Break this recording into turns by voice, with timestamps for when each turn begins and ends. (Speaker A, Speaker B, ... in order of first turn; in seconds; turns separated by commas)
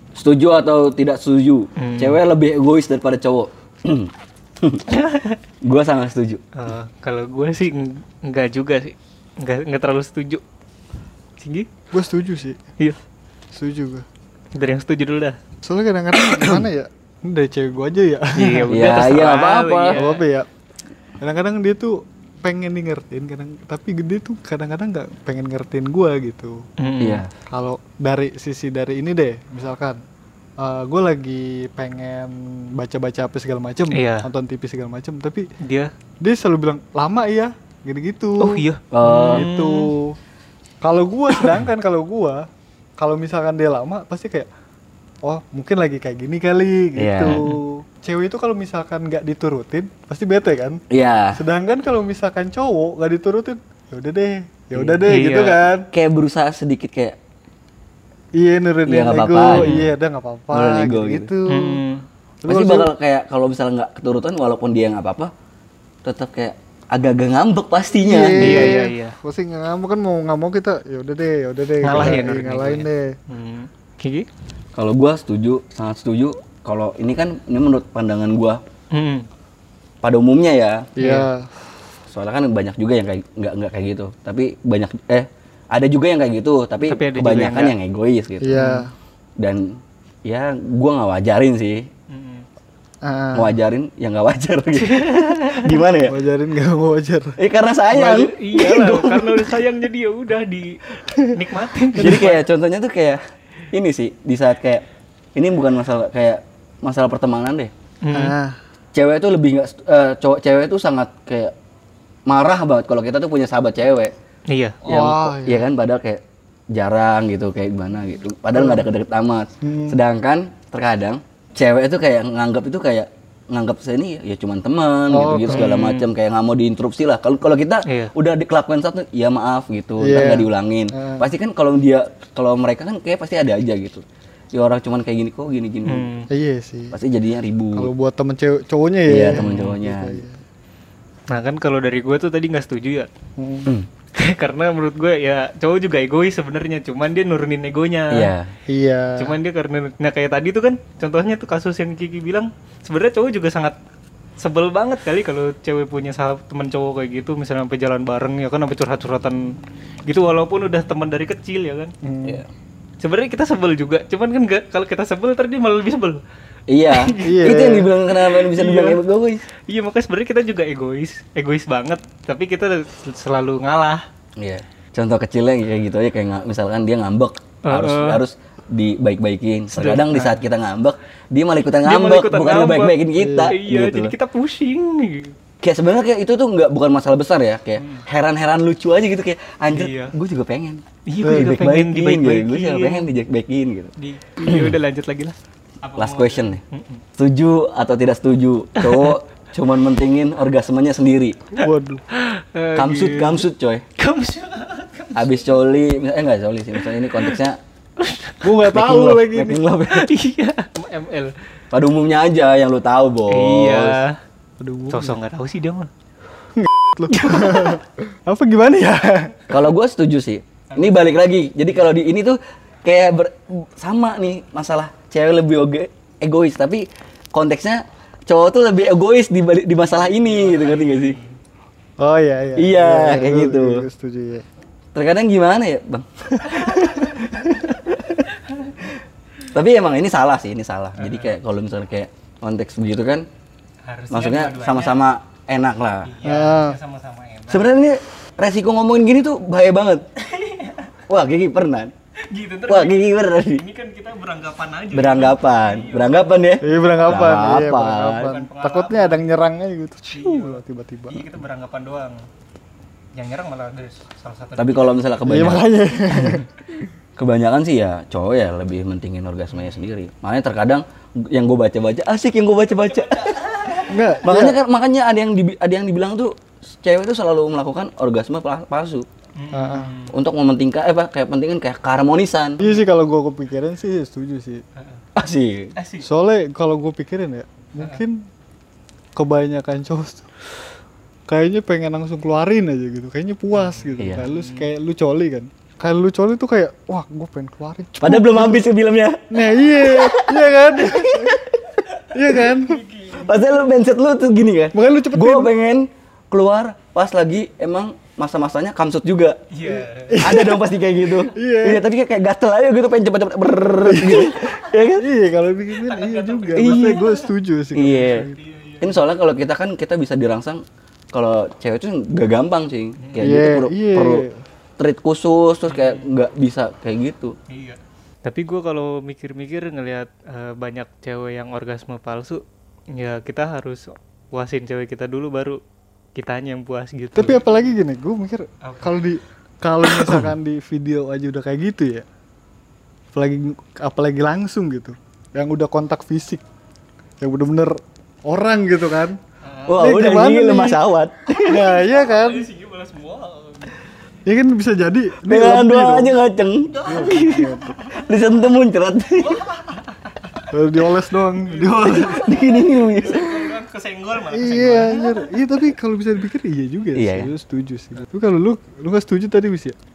Speaker A: 0.1-4.8, Speaker B: 1.8-2.2, Speaker B: 4.9-5.4, Speaker A: 5.6-6.4, Speaker B: 6.6-10.4, Speaker B: 11.4-11.7, Speaker C: 11.9-12.6, Speaker C: 13.5-14.1, Speaker B: 14.6-15.4, Speaker C: 15.6-18.7, Speaker B: 18.4-20.2, Speaker A: 18.7-20.0, Speaker C: 20.0-20.5, Speaker C: 21.2-26.6, Speaker B: 26.8-27.2, Speaker A: 27.0-27.3, Speaker C: 27.5-30.0, Speaker C: 30.6-35.5, Speaker B: 33.9-34.3, Speaker B: 35.6-35.9, Speaker C: 36.2-38.6, Speaker B: 38.4-39.9, Speaker A: 38.9-39.5, Speaker C: 39.3-40.2, Speaker C: 40.8-42.5, Speaker C: 43.0-44.5, Speaker C: 45.2-50.8, Speaker A: 47.0-47.4, Speaker B: 47.3-47.6, Speaker A: 50.9-51.4, Speaker C: 51.4-55.9, Speaker A: 54.8-55.0, Speaker B: 55.0-55.6, Speaker A: 55.9-57.2, Speaker C: 58.4-61.8, Speaker A: 58.9-59.9, Speaker B: 59.5-59.9, Speaker A: 60.5-61.3, Speaker B: 61.5-62.0, Speaker C: 62.4-62.9, Speaker A: 62.5-65.3, Speaker A: 66.0-68.8, Speaker C: 68.0-73.2, Speaker B: 68.4-69.2, Speaker B: 71.8-74.3, Speaker A: 72.0-72.2, Speaker A: 74.8-78.6, Speaker B: 78.9-79.3, Speaker A: 80.0-80.9, Speaker C: 81.0-81.5, Speaker B: 81.0-81.3, Speaker A: 82.1-88.6, Speaker B: 86.8-87.8, Speaker C: 88.4-88.9, Speaker B: 88.5-88.9, Speaker A: 89.4-91.9, Speaker B: 92.1-92.5, Speaker C: 93.0-93.5, Speaker A: 93.3-96.2, Speaker B: 94.8-95.7, Speaker C: 96.1-97.4, Speaker A: 97.4-99.5, Speaker B: 97.9-102.4, Speaker A: 102.0-103.2, Speaker A: 103.7-104.8, Speaker A: 105.3-107.7, Speaker B: 108.0-108.4, Speaker C: 108.1-108.6, Speaker A: 108.9-111.5, Speaker A: 112.3-114.1, Speaker B: 114.5-114.9, Speaker A: 114.8-136.1, Speaker C: 114.9-115.7, Speaker C: 118.5-118.8, Speaker C: 119.6-120.0, Speaker C: 125.1-125.7, Speaker B: 125.5-126.1, Speaker B: 127.8-128.1, Speaker C: 130.0-131.3, Speaker B: 135.9-136.3, Speaker C: 136.3-137.0, Speaker A: 136.9-137.9, Speaker C: 137.7-140.4, Speaker A: 139.1-140.2, Speaker B: 139.4-139.8, Speaker B: 141.3-143.1, Speaker C: 143.4-143.7, Speaker B: 144.2-148.3, Speaker A: 148.1-148.5, Speaker C: 148.7-149.3, Speaker B: 149.2-153.8, Speaker B: 154.4-159.6, Speaker B: 160.1-161.9, Speaker C: 162.0-162.4, Speaker B: 163.0-166.2, Speaker A: 166.7-169.4, Speaker B: 166.9-169.0, Speaker C: 167.2-167.9, Speaker B: 169.7-174.0, Speaker A: 174.4-184.1, Speaker B: 177.7-178.2, Speaker B: 179.7-180.4, Speaker B: 181.8-185.3, Speaker C: 183.2-183.6, Speaker A: 185.6-194.8, Speaker B: 187.8-188.1, Speaker B: 189.7-190.1, Speaker B: 191.1-193.1, Speaker C: 191.2-191.6, Speaker B: 194.0-197.0, Speaker A: 196.0-196.6, Speaker A: 197.2-201.4, Speaker B: 198.8-199.2, Speaker C: 201.6-202.0, Speaker B: 201.6-203.4, Speaker A: 202.8-203.8, Speaker B: 204.0-205.3, Speaker A: 205.2-207.6, Speaker B: 208.0-208.6, Speaker C: 208.4-209.6, Speaker A: 208.7-210.1, Speaker B: 209.9-211.3, Speaker A: 211.7-214.0, Speaker B: 213.3-214.2, Speaker C: 214.6-215.2, Speaker B: 214.9-215.9, Speaker C: 216.6-219.5, Speaker B: 217.1-217.8, Speaker A: 219.5-231.2, Speaker B: 220.7-221.2, Speaker B: 229.8-231.4, Speaker C: 232.0-234.4, Speaker A: 232.6-233.8, Speaker A: 234.9-238.3, Speaker B: 236.5-237.5, Speaker A: 239.5-243.3, Speaker B: 241.0-241.3, Speaker B: 243.8-245.0, Speaker A: 244.1-246.1, Speaker B: 246.1-247.7, Speaker C: 246.2-246.8, Speaker A: 247.5-250.0, Speaker B: 250.2-250.9, Speaker A: 251.1-251.9, Speaker B: 252.3-256.7, Speaker A: 252.7-253.6, Speaker A: 254.9-258.3, Speaker C: 256.6-261.3, Speaker B: 258.1-259.2, Speaker B: 260.1-262.2, Speaker B: 263.1-265.2, Speaker A: 264.6-266.4, Speaker C: 265.3-266.4, Speaker A: 267.2-273.6, Speaker B: 272.7-274.2, Speaker C: 273.9-274.6, Speaker A: 274.2-279.1, Speaker B: 279.4-280.1, Speaker C: 279.5-279.9, Speaker A: 280.1-282.6, Speaker C: 282.6-284.6, Speaker B: 284.8-285.0, Speaker A: 285.1-285.7, Speaker B: 285.8-286.1, Speaker C: 286.0-288.2, Speaker C: 289.2-290.3, Speaker C: 291.3-298.6, Speaker B: 293.6-294.7, Speaker A: 298.0-301.6, Speaker C: 299.3-301.5, Speaker B: 301.9-303.4, Speaker C: 302.1-302.8, Speaker A: 303.2-309.4, Speaker C: 304.7-305.5, Speaker B: 309.5-310.3, Speaker C: 309.7-310.6, Speaker A: 310.2-315.1, Speaker C: 311.3-311.8, Speaker C: 313.8-314.4, Speaker C: 315.0-318.4, Speaker B: 315.8-317.3, Speaker A: 316.6-317.0, Speaker A: 317.7-324.2, Speaker B: 318.3-319.0, Speaker B: 323.0-323.3, Speaker C: 323.2-324.4, Speaker A: 324.8-327.4, Speaker B: 325.7-326.1, Speaker B: 327.5-335.6, Speaker B: 336.2-337.5, Speaker C: 337.2-342.1, Speaker B: 338.6-339.0, Speaker C: 343.1-346.4, Speaker C: 347.2-349.2, Speaker B: 349.4-349.9, Speaker A: 349.7-351.7, Speaker C: 349.8-350.8, Speaker C: 351.5-352.5, Speaker B: 351.9-353.8, Speaker C: 354.3-356.1, Speaker A: 355.2-359.4, Speaker B: 356.7-357.9, Speaker C: 356.9-357.8, Speaker B: 359.2-360.5, Speaker C: 360.5-362.2, Speaker B: 361.4-365.3, Speaker A: 361.8-363.5, Speaker C: 364.3-369.8, Speaker A: 366.9-367.3